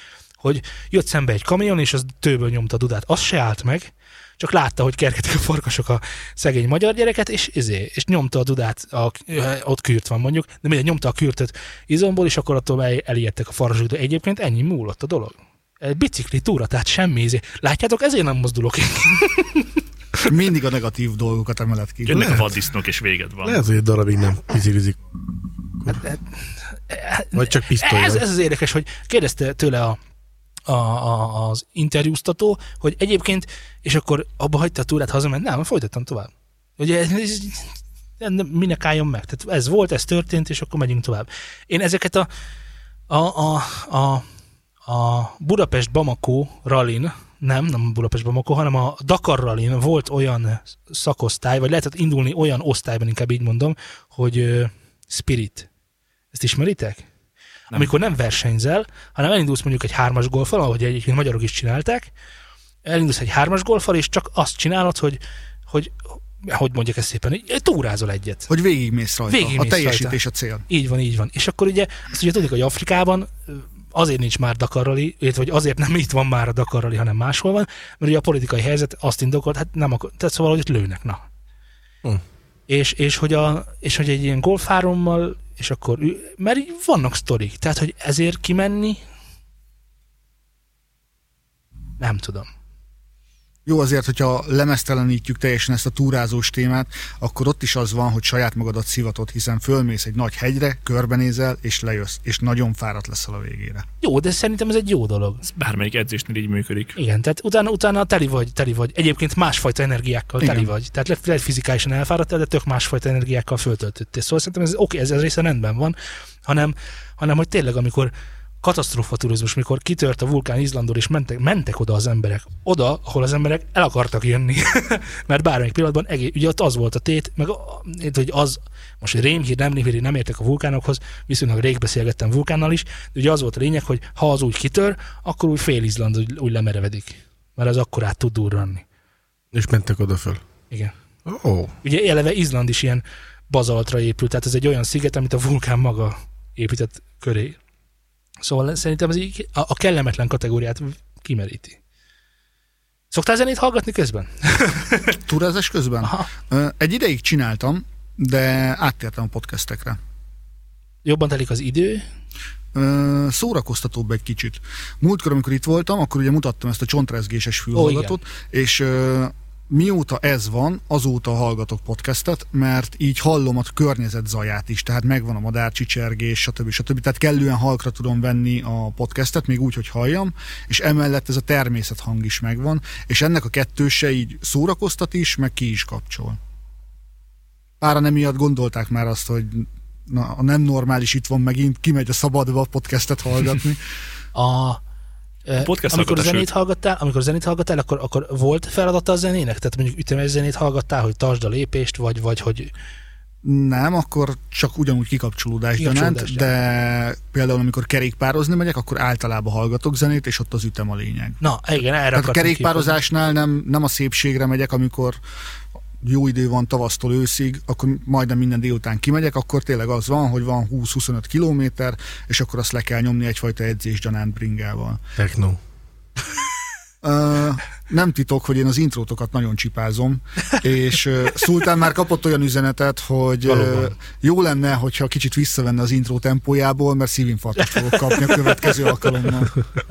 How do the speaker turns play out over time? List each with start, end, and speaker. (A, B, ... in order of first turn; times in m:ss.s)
0:00.4-0:20.2 A
0:20.2-0:22.3 B
0:22.0-0:23.6 C
0:22.1-0:22.4 D
0:23.4-0:25.0 D
0:25.9-0:30.0 A
0:27.3-0:28.2 D
0:30.7-0:42.3 A
0:43.1-0:44.2 A
0:44.8-0:55.7 A
0:56.3-0:57.1 A
0:57.7-1:02.1 A
1:02.8-1:08.5 A
1:08.5-1:10.6 B
1:09.3-1:10.2 A
1:10.7-1:21.2 A
1:22.7-1:29.0 A
1:32.0-1:32.5 A
1:33.6-1:43.8 B
1:44.0-1:45.4 A
1:45.4-1:47.0 C
1:47.0-2:18.8 A
1:50.4-1:50.7 B
2:19.5-2:20.4 D
2:21.2-2:21.7 D
2:21.8-2:27.6 A
2:28.4-2:31.8 A
2:33.1-2:35.2 A
2:35.2-2:40.0 B
2:36.0-2:36.3 A
2:41.0-2:42.0 A
2:42.7-3:06.4 B
2:47.7-2:48.2 A
3:07.8-3:13.8 B
3:14.3-3:14.8 A
3:15.5-3:22.7 A
3:15.6-3:16.5 C
3:23.4-3:31.4 B
3:25.8-3:26.5 A
3:31.4-3:32.9 A
3:32.1-3:35.2 B
3:36.0-3:45.0 B
3:45.2-3:45.6 D
3:47.0-3:59.6 B
3:53.5-3:53.9 D